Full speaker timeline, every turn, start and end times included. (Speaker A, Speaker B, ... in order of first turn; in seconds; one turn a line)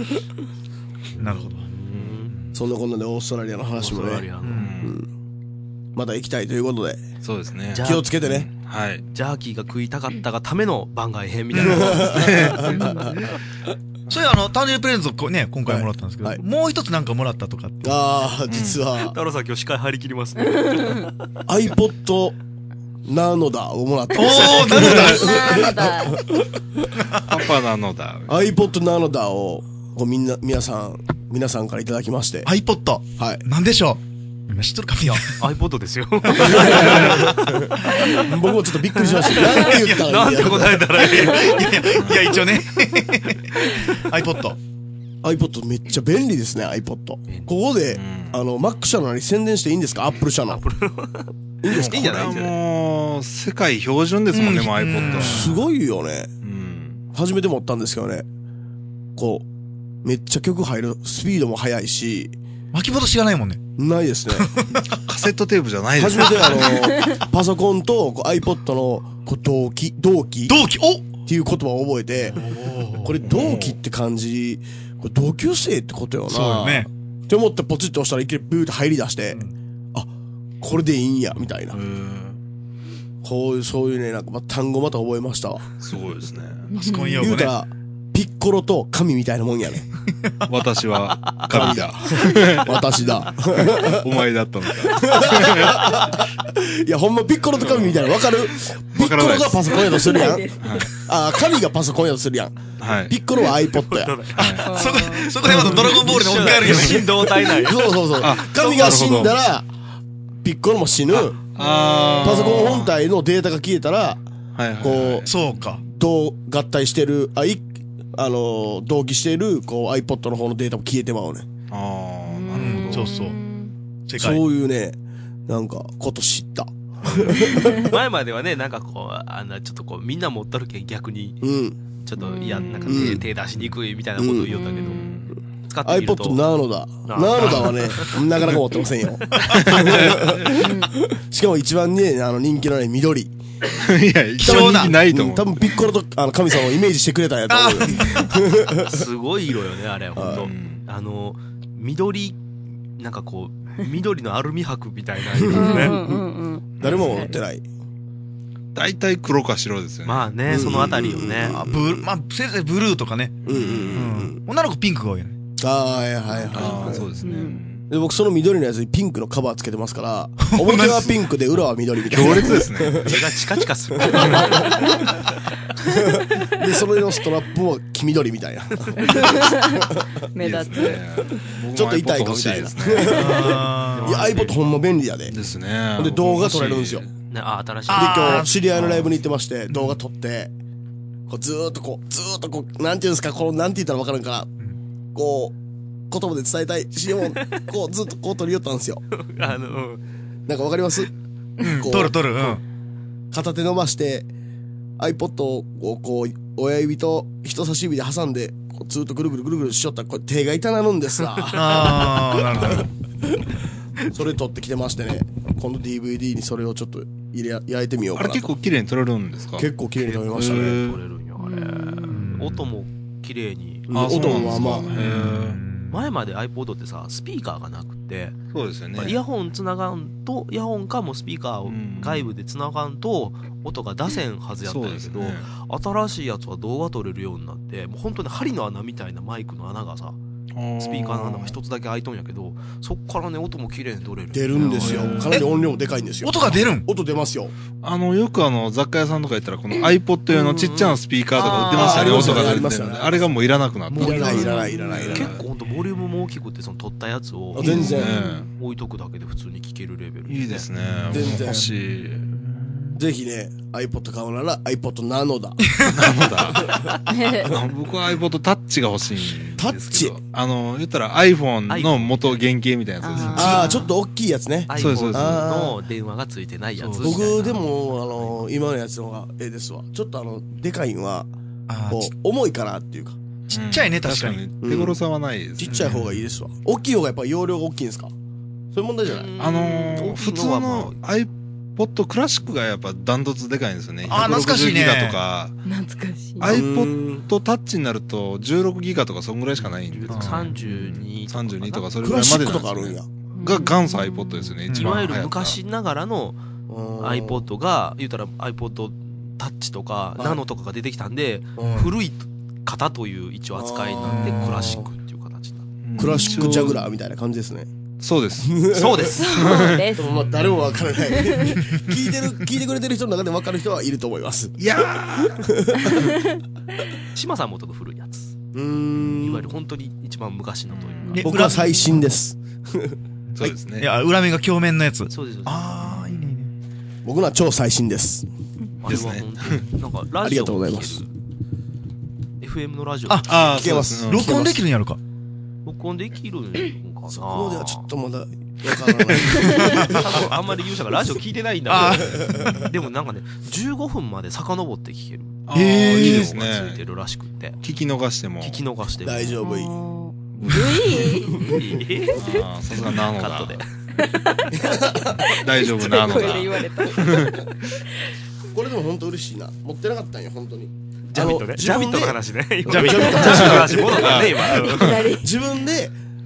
Speaker A: 1.2-2.4
Speaker B: 1.2-1.7
Speaker C: 1.9-2.5
Speaker D: 2.5-4.3
Speaker A: 3.8-4.7
Speaker B: 4.4-4.7
Speaker C: 4.6-5.0
Speaker D: 4.8-5.1
Speaker D: 6.0-7.0
Speaker C: 7.2-9.0
Speaker A: 7.7-8.1
Speaker D: 7.8-8.5
Speaker A: 9.1-13.1
Speaker B: 11.5-11.8
Speaker D: 11.6-13.1
Speaker C: 12.0-12.7
Speaker E: 12.7-13.1
Speaker B: 14.1-18.0
Speaker D: 15.7-16.4
Speaker D: 17.8-19.1
Speaker C: 18.5-18.8
Speaker A: 19.0-21.1
Speaker D: 21.5-22.4
Speaker D: 23.1-26.4
Speaker B: 24.1-25.4
Speaker C: 24.8-25.6
Speaker E: 25.0-26.2
Speaker C: 27.2-28.4
Speaker D: 28.3-32.5
Speaker B: 32.5-35.5
Speaker D: 33.2-33.4
Speaker A: 35.0-38.2
Speaker D: 36.3-41.5
Speaker C: 36.9-37.2
Speaker A: 39.2-42.0
Speaker E: 39.4-39.7
Speaker B: 41.2-44.6
Speaker C: 42.0-42.3
Speaker D: 45.2-50.6
Speaker A: 47.3-47.6
Speaker C: 47.9-48.4
Speaker A: 50.5-52.6
Speaker D: 51.6-52.2
Speaker C: 51.7-55.6
Speaker B: 54.3-55.6
Speaker D: 55.0-56.3
Speaker C: 56.4-57.0
Speaker D: 57.1-58.3
Speaker D: 59.2-59.5
Speaker D: 60.0-62.4
Speaker B: 62.7-63.6
Speaker D: 63.8-64.5
Speaker B: 64.4-64.8
Speaker C: 64.7-66.8
Speaker D: 66.0-70.6
Speaker B: 70.5-71.1
Speaker D: 71.2-79.4
Speaker B: 72.3-73.2
Speaker C: 73.2-73.8
Speaker B: 76.3-76.9
Speaker D: 80.6-81.8
Speaker C: 81.4-82.4
Speaker D: 83.2-85.7
Speaker C: 85.8-86.7
Speaker E: 86.7-87.3
Speaker B: 86.7-87.5
Speaker D: 87.2-89.8
Speaker C: 90.5-96.1
Speaker A: 91.2-91.7
Speaker D: 91.5-94.1
Speaker D: 94.8-104.1
Speaker C: 97.6-98.1
Speaker C: 98.9-100.9
Speaker E: 99.7-100.9
Speaker C: 102.8-103.2
Speaker A: 103.6-109.2
Speaker B: 104.4-107.0
Speaker C: 104.4-104.7
Speaker E: 104.6-105.6
Speaker C: 106.7-107.0
Speaker D: 107.5-109.7
Speaker C: 108.2-109.4
Speaker D: 110.4-111.4
Speaker C: 111.2-113.0
Speaker E: 111.6-112.5
Speaker D: 112.2-114.3
Speaker C: 114.5-115.3
Speaker D: 114.8-115.3
Speaker B: 115.3-115.8
Speaker D: 115.9-121.5
Speaker C: 121.7-123.1
Speaker E: 122.3-123.8
Speaker B: 122.6-123.4
Speaker B: 124.1-124.4
Speaker D: 124.2-127.9
Speaker C: 127.0-127.5
Speaker A: 127.7-131.4
Speaker D: 131.4-131.8
Speaker A: 132.0-136.4
Speaker E: 132.2-132.6
Speaker C: 132.6-133.7
Speaker D: 132.9-133.2
Speaker D: 134.2-134.6
Speaker C: 134.9-135.4
Speaker D: 135.8-143.3
Speaker A: 137.1-138.2
Speaker C: 139.5-140.5
Speaker E: 140.5-140.9
Speaker C: 143.8-145.5
Speaker B: 144.4-144.9
Speaker D: 144.4-148.9
Speaker B: 147.5-147.8
Speaker E: 147.8-148.3
Speaker A: 148.9-152.4
Speaker D: 150.2-150.5
Speaker C: 150.3-150.8
Speaker A: 153.0-156.0
Speaker E: 155.5-157.4
Speaker D: 155.6-156.2
Speaker D: 156.8-157.7
Speaker C: 156.8-157.3
Speaker C: 158.8-161.0
Speaker A: 160.1-161.6
Speaker D: 160.5-162.1
Speaker B: 161.5-163.4
Speaker D: 163.4-164.4
Speaker C: 163.5-164.1
Speaker B: 163.9-165.4
Speaker D: 165.6-167.1
Speaker C: 166.5-167.8
Speaker E: 166.8-167.6
Speaker D: 167.9-173.2
Speaker B: 170.4-171.2
Speaker C: 172.0-173.2
Speaker A: 173.0-175.1
Speaker D: 174.0-174.8
Speaker D: 175.9-180.1
Speaker E: 179.0-181.1
Speaker C: 180.4-183.2
Speaker D: 181.7-185.3
Speaker E: 183.1-183.6
Speaker B: 183.1-184.2
Speaker A: 183.4-184.6
Speaker C: 185.3-187.1
Speaker D: 186.0-187.1
Speaker A: 187.3-188.5
Speaker B: 187.9-189.1
Speaker D: 187.9-190.5
Speaker D: 191.3-194.5
Speaker D: 195.2-195.6
Speaker D: 196.1-199.0
Speaker A: 199.1-200.0
Speaker D: 200.5-201.1
Speaker B: 201.6-202.6
Speaker D: 201.7-202.6
Speaker D: 203.3-204.3
Speaker D: 205.0-211.9
Speaker B: 211.5-212.8
Speaker A: 211.7-212.8
Speaker C: 212.5-212.9
Speaker D: 214.1-218.5
Speaker C: 218.2-219.7
Speaker D: 219.6-220.8
Speaker A: 220.0-224.2
Speaker C: 220.3-221.0
Speaker E: 221.4-222.2
Speaker B: 222.1-222.7
Speaker D: 223.9-225.0
Speaker C: 223.9-225.6
Speaker B: 224.5-226.1
Speaker A: 225.9-228.4
Speaker C: 228.5-229.2
Speaker A: 229.0-240.2
Speaker C: 231.7-232.3
Speaker C: 234.6-235.5
Speaker C: 240.5-241.6
Speaker A: 240.8-245.5
Speaker D: 244.3-247.5
Speaker C: 244.7-245.4
Speaker B: 246.2-246.9
Speaker C: 247.8-255.4
Speaker E: 250.3-250.7
Speaker B: 251.4-252.5
Speaker D: 251.7-255.3
Speaker A: 253.9-258.0
Speaker E: 254.2-254.8
Speaker D: 257.5-258.2
Speaker C: 257.6-258.5
Speaker E: 257.7-258.4
Speaker A: 258.6-260.7
Speaker C: 260.3-262.4
Speaker B: 260.8-263.0
Speaker D: 261.1-261.7
Speaker D: 262.9-267.5
Speaker C: 265.8-266.8
Speaker E: 267.1-267.5
Speaker C: 267.4-273.8
Speaker D: 269.6-270.2
Speaker A: 271.7-272.4
Speaker E: 273.0-273.9
Speaker D: 273.4-275.8
Speaker A: 274.7-278.4
Speaker C: 274.8-275.5
Speaker B: 276.8-277.2
Speaker D: 277.0-281.3
Speaker B: 281.7-282.1
Speaker D: 281.9-283.2
Speaker C: 283.5-285.9
Speaker B: 283.5-284.5
Speaker D: 284.6-285.0
Speaker D: 285.6-288.1
Speaker B: 285.7-286.2
Speaker D: 288.7-289.3
Speaker A: 289.1-291.0
Speaker C: 289.4-295.6
Speaker B: 294.1-295.2
Speaker E: 295.7-296.6
Speaker C: 296.4-305.6
Speaker D: 296.4-297.2
Speaker A: 299.6-301.9
Speaker B: 300.1-300.5
Speaker D: 302.0-303.1
Speaker E: 303.4-304.6
Speaker B: 304.7-305.0
Speaker A: 304.7-306.4
Speaker D: 306.7-307.5
Speaker A: 307.0-315.6
Speaker B: 311.6-311.9
Speaker D: 313.6-314.9
Speaker B: 314.1-314.8
Speaker C: 315.8-316.9
Speaker D: 316.0-317.7
Speaker E: 316.0-316.8
Speaker C: 318.0-318.7
Speaker D: 318.4-319.1
Speaker A: 318.7-319.7
Speaker E: 319.1-320.2
Speaker C: 319.2-319.9
Speaker D: 320.0-324.6
Speaker B: 320.2-321.0
Speaker E: 321.0-321.6
Speaker C: 324.6-325.5
Speaker D: 325.3-326.1
Speaker A: 327.1-328.3
Speaker D: 328.5-329.5
Speaker A: 329.2-331.2
Speaker C: 330.7-331.4
Speaker E: 331.0-331.8
Speaker B: 331.1-332.0
Speaker D: 331.2-333.5
Speaker B: 333.3-336.5
Speaker C: 333.4-333.9
Speaker A: 335.1-336.1
Speaker D: 337.0-338.3
Speaker A: 338.8-341.1
Speaker C: 338.9-339.7
Speaker D: 340.2-341.0
Speaker A: 342.4-343.6
Speaker B: 343.1-343.4
Speaker C: 343.3-344.3
Speaker D: 343.4-344.6
Speaker B: 344.1-345.0
Speaker A: 345.6-347.9
Speaker D: 347.1-350.1
Speaker A: 349.6-355.4
Speaker B: 351.7-352.6
Speaker D: 351.9-352.3
Speaker C: 352.4-352.7
Speaker C: 355.5-356.8
Speaker B: 355.5-356.3
Speaker A: 355.9-357.6
Speaker C: 357.6-358.6
Speaker A: 358.4-359.4
Speaker D: 359.0-359.8
Speaker E: 359.4-362.2
Speaker C: 360.4-361.2
Speaker D: 361.0-361.7
Speaker A: 361.4-364.1
Speaker C: 362.1-363.6
Speaker E: 364.0-367.8
Speaker D: 364.5-365.2
Speaker C: 365.2-367.6
Speaker D: 368.5-374.1
Speaker A: 371.1-375.0
Speaker E: 372.9-375.4
Speaker C: 373.2-375.2
Speaker D: 375.2-375.9